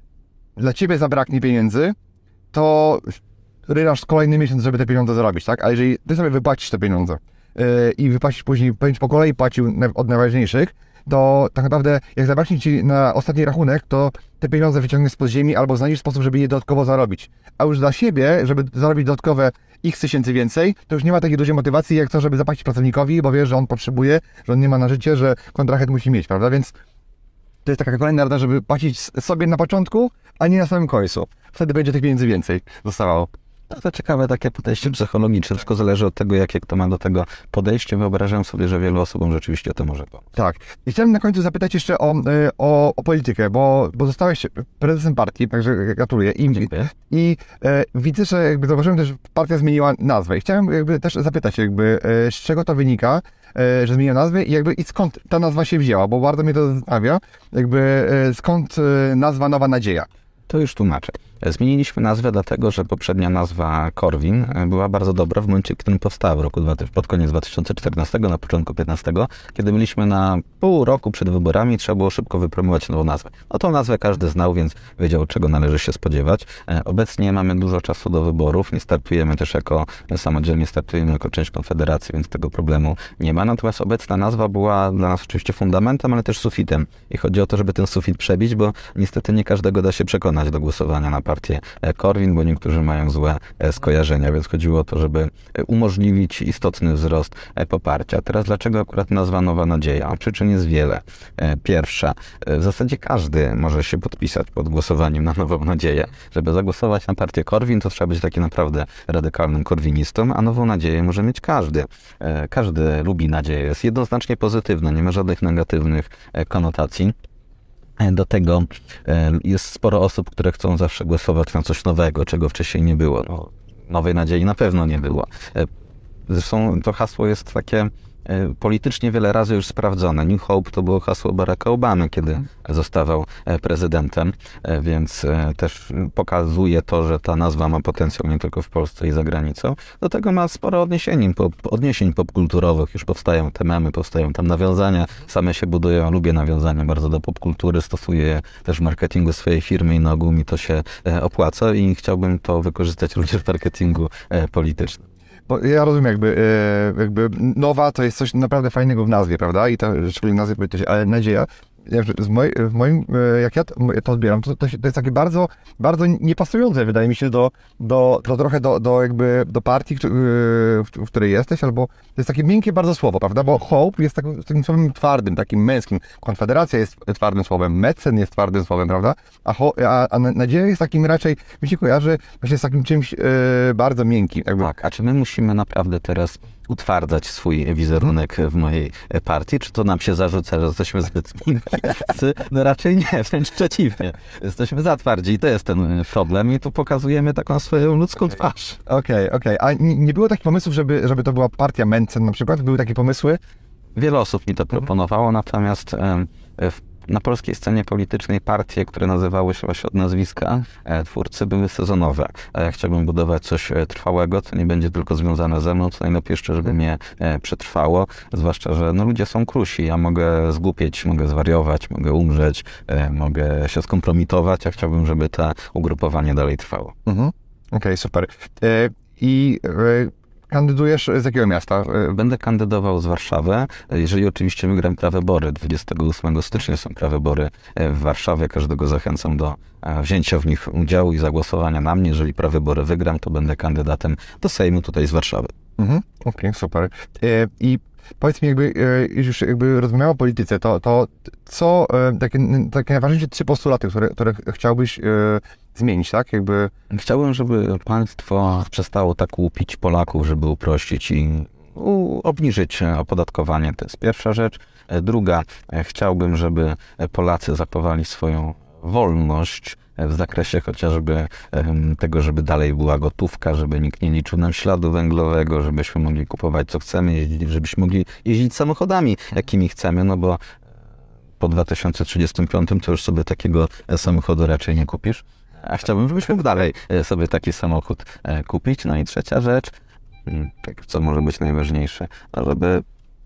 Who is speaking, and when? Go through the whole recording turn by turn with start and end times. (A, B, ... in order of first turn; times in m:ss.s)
0:00.6-0:02.0 A
0:02.5-0:26.7 A
0:27.6-0:33.3 A
0:33.7-0:40.2 B
0:40.4-1:00.1 A
0:46.5-0:46.9 B
1:00.5-1:57.1 B
1:58.0-2:05.7 B
2:06.3-2:35.0 B
2:35.5-3:04.7 A
3:04.6-3:18.8 B
3:18.9-3:23.4 A
3:24.0-3:46.9 B
3:47.0-3:52.2 A
3:52.1-4:05.5 B
4:05.8-4:16.7 A
4:16.9-4:40.4 B
4:41.4-4:49.7 B
4:50.2-4:52.8 B